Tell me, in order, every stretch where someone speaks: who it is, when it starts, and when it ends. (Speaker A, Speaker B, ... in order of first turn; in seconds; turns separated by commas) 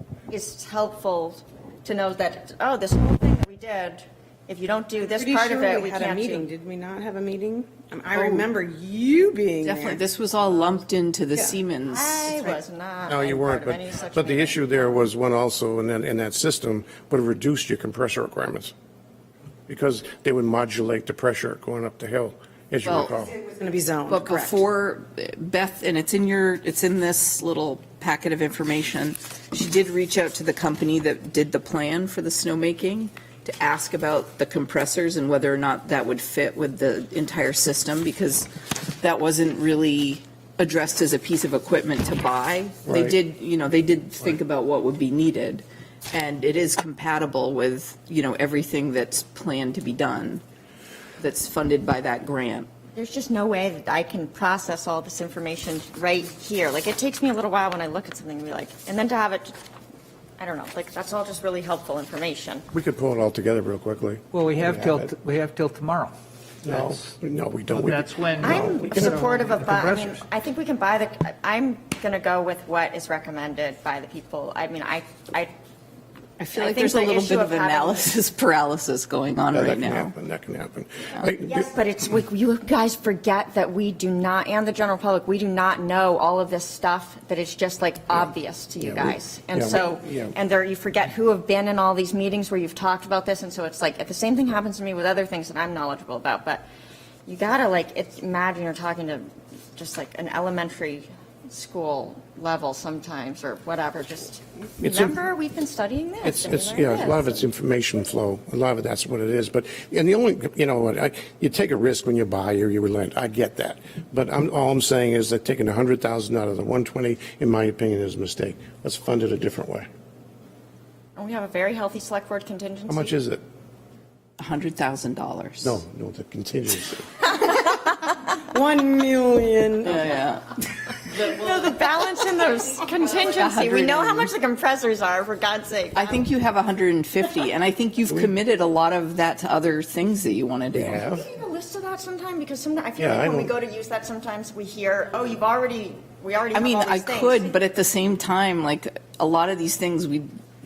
Speaker A: 0.3-6.5, Speaker B: 5.1-10.0, Speaker C: 8.1-8.5, Speaker C: 9.6-12.3, Speaker A: 11.9-15.0, Speaker D: 13.1-18.7, Speaker D: 19.7-23.4, Speaker C: 22.8-23.1, Speaker B: 23.2-24.6, Speaker C: 24.1-50.4, Speaker D: 42.9-43.1, Speaker C: 51.2-52.7, Speaker A: 52.9-59.5, Speaker A: 60.4-62.6, Speaker D: 62.7-65.1, Speaker E: 64.3-66.1, Speaker D: 66.6-69.5, Speaker E: 66.7-67.1, Speaker E: 67.7-70.2, Speaker A: 68.4-75.5, Speaker C: 76.4-80.1, Speaker A: 76.5-78.1, Speaker D: 79.5-81.7, Speaker A: 81.4-96.6, Speaker D: 88.8-90.3, Speaker A: 97.2-107.4, Speaker D: 104.8-105.2, Speaker D: 106.2-119.9, Speaker A: 121.2-123.1, Speaker D: 122.9-123.4, Speaker C: 124.4-125.8, Speaker D: 125.6-127.0, Speaker A: 127.4-127.9, Speaker B: 128.5-130.1, Speaker C: 129.8-130.5, Speaker A: 131.1-136.2, Speaker C: 133.2-134.3, Speaker C: 135.9-141.0, Speaker D: 140.7-141.2, Speaker A: 141.1-147.5, Speaker D: 143.0-143.5, Speaker C: 146.5-150.3